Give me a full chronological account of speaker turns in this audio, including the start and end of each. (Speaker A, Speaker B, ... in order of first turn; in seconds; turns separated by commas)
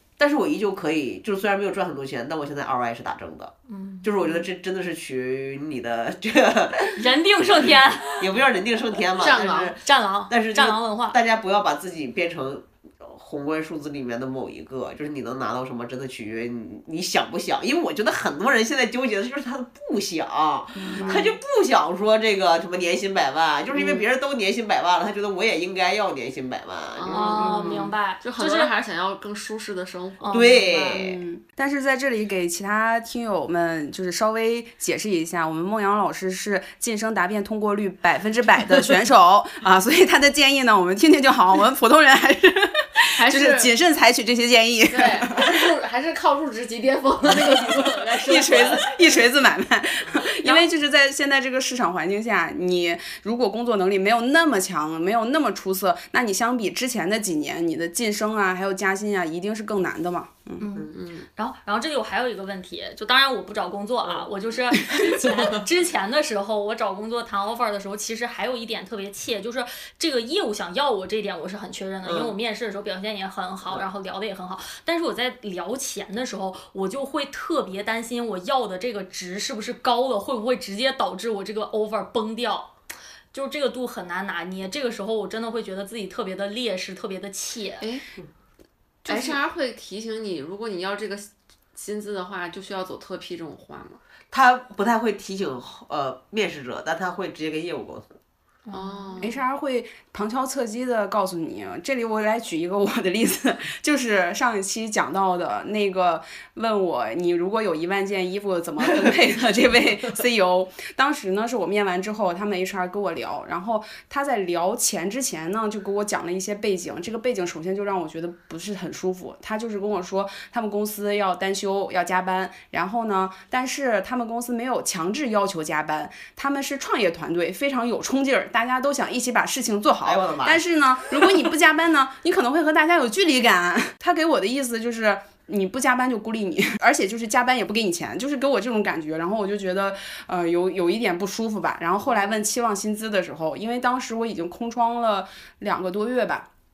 Speaker A: 0.2-7.0, Speaker B: 3.7-4.3, Speaker B: 7.0-8.4, Speaker A: 7.6-27.7, Speaker C: 9.2-9.7, Speaker B: 9.3-11.2, Speaker D: 20.7-21.3, Speaker B: 20.9-21.2, Speaker D: 23.7-24.0, Speaker C: 26.9-30.4, Speaker B: 27.1-28.7, Speaker D: 27.4-27.9, Speaker B: 30.2-31.0, Speaker A: 30.3-31.2, Speaker D: 30.9-45.5, Speaker C: 43.1-43.7, Speaker C: 44.9-49.2, Speaker D: 48.2-60.6, Speaker B: 60.6-82.7, Speaker C: 60.9-61.2, Speaker A: 72.0-72.3, Speaker B: 83.3-87.9, Speaker C: 87.8-88.1, Speaker C: 89.0-94.0, Speaker A: 94.3-98.1, Speaker B: 98.6-99.3, Speaker C: 98.7-99.4, Speaker D: 99.2-146.5, Speaker A: 130.0-130.6, Speaker A: 131.2-131.4